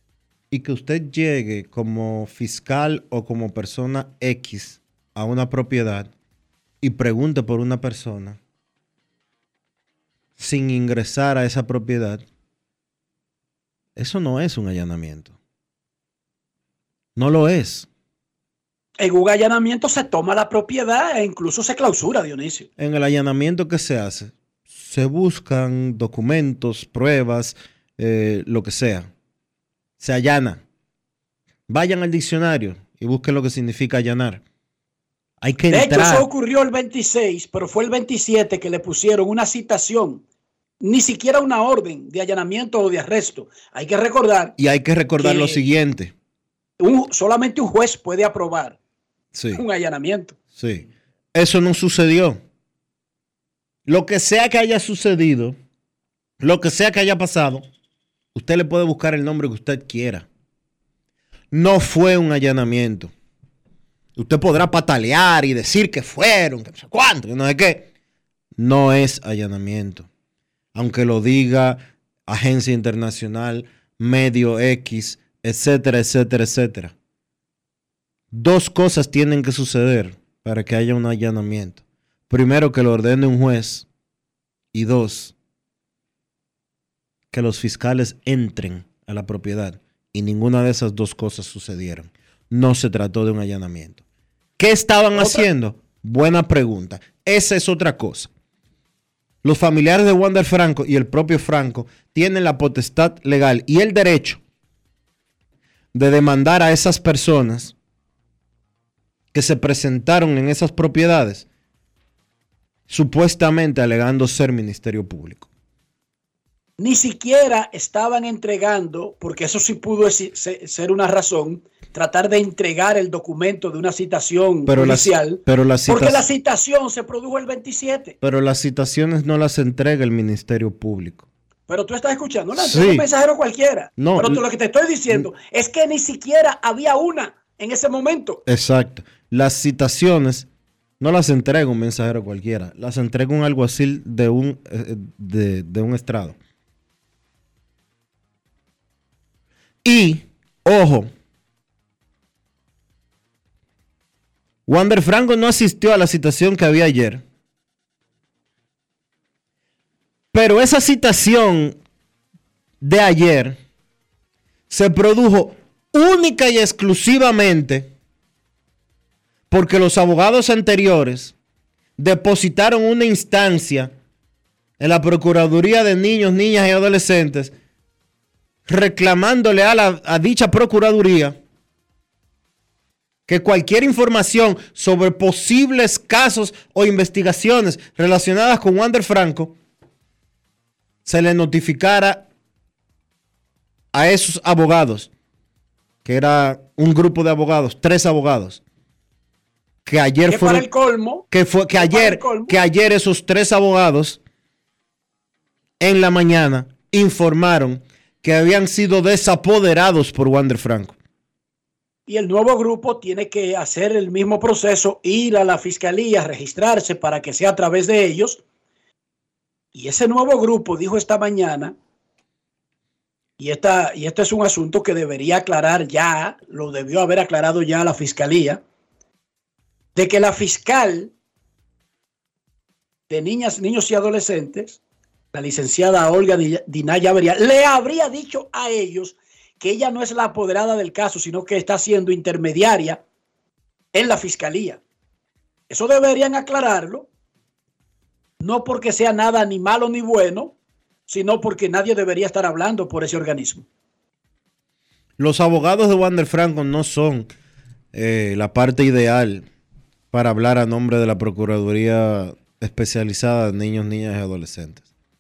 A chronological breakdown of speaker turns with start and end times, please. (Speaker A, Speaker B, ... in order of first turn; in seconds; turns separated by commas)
Speaker A: 0.5-6.1, Speaker A: 6.8-8.4, Speaker A: 10.4-12.2, Speaker A: 14.0-15.4, Speaker A: 17.2-17.9, Speaker B: 19.0-22.7, Speaker A: 22.8-29.1, Speaker A: 30.0-30.6, Speaker A: 31.7-34.4, Speaker A: 35.4-36.3, Speaker B: 35.7-40.2, Speaker B: 40.8-44.5, Speaker A: 44.6-46.1, Speaker B: 45.2-45.6, Speaker B: 46.8-48.8, Speaker A: 49.3-49.6, Speaker B: 49.5-50.4, Speaker A: 50.6-52.4, Speaker A: 53.9-55.6, Speaker A: 56.4-57.7, Speaker A: 58.4-60.3, Speaker A: 61.5-63.1, Speaker A: 64.2-67.9, Speaker A: 68.6-70.1, Speaker A: 70.8-77.0, Speaker A: 78.3-83.9, Speaker A: 84.7-85.3, Speaker A: 87.3-94.0, Speaker A: 94.6-98.3, Speaker B: 95.2-95.5, Speaker A: 99.4-104.4, Speaker A: 105.9-107.7, Speaker A: 109.3-111.5, Speaker A: 112.9-115.5, Speaker B: 116.8-128.2, Speaker A: 124.7-126.2, Speaker A: 128.2-131.2, Speaker B: 131.7-138.4, Speaker A: 132.6-133.1, Speaker A: 134.0-134.4, Speaker A: 138.5-140.5, Speaker A: 141.0-146.4, Speaker A: 149.8-151.1, Speaker A: 154.7-157.2, Speaker A: 160.3-161.8, Speaker A: 162.8-163.6, Speaker A: 164.7-167.9, Speaker A: 169.5-171.3, Speaker A: 172.0-173.9, Speaker A: 174.8-177.5, Speaker A: 178.7-181.4, Speaker A: 183.3-189.6, Speaker A: 191.1-192.3, Speaker A: 193.9-195.1, Speaker A: 196.1-198.6, Speaker A: 199.9-200.7, Speaker B: 200.3-201.2, Speaker A: 201.3-204.2, Speaker B: 201.8-202.6, Speaker A: 205.8-211.0, Speaker B: 212.1-218.4, Speaker B: 219.7-221.8, Speaker B: 223.4-228.6, Speaker B: 229.9-231.1, Speaker B: 233.1-234.8, Speaker B: 235.3-243.0, Speaker B: 243.9-244.8, Speaker B: 245.7-247.1, Speaker B: 248.4-250.5, Speaker B: 251.1-253.7, Speaker A: 255.2-257.3, Speaker A: 257.9-259.5, Speaker A: 260.1-264.8